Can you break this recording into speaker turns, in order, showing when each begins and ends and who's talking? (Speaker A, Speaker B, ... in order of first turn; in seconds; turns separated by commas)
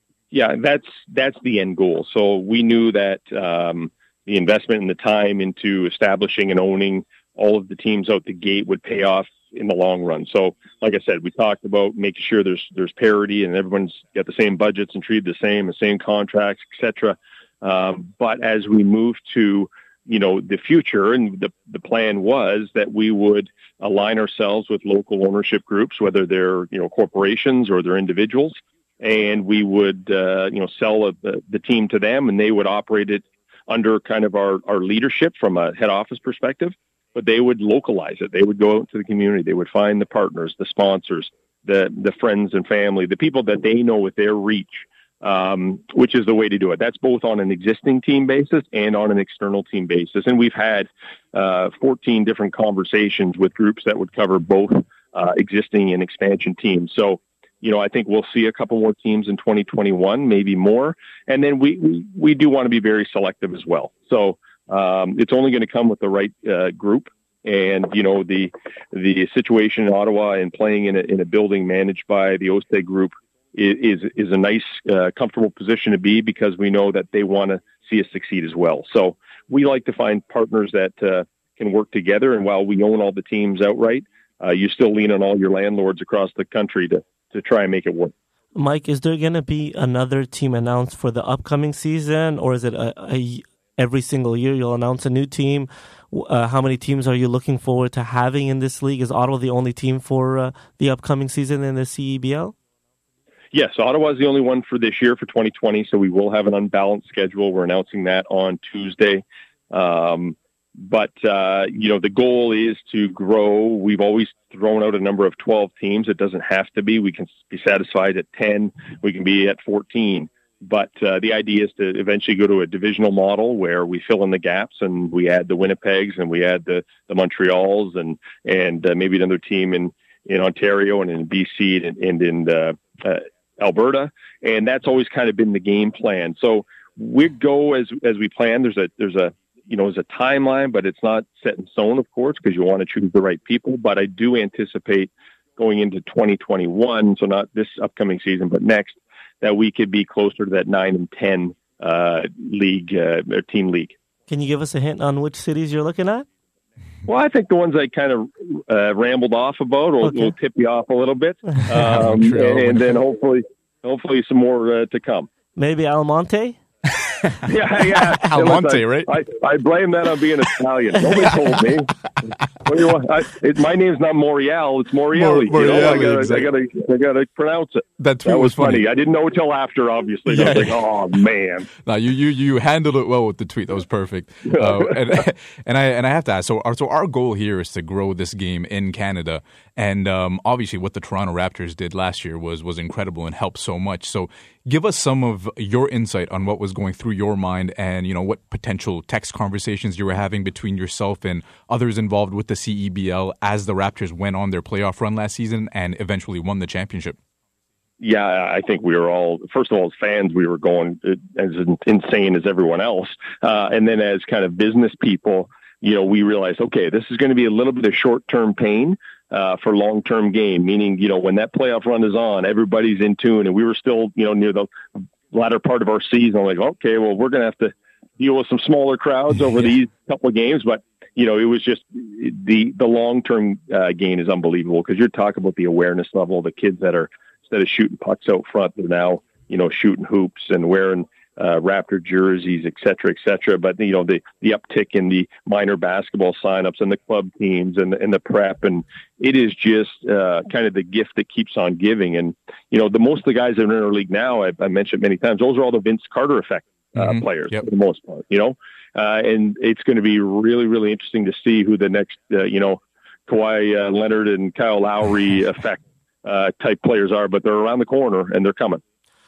Speaker A: 0.3-88.1, Speaker B: 88.5-102.5, Speaker A: 103.5-153.9, Speaker B: 154.3-156.2, Speaker A: 157.1-165.3, Speaker B: 160.0-160.3, Speaker C: 161.7-163.0, Speaker B: 165.6-166.6, Speaker A: 167.5-171.9, Speaker C: 167.7-169.1, Speaker C: 171.2-171.6, Speaker A: 172.7-181.7, Speaker C: 175.1-176.5, Speaker C: 178.0-178.9, Speaker C: 180.3-181.0, Speaker C: 181.8-207.2, Speaker A: 184.5-184.9, Speaker A: 208.0-224.7, Speaker A: 225.3-268.8, Speaker C: 256.9-257.6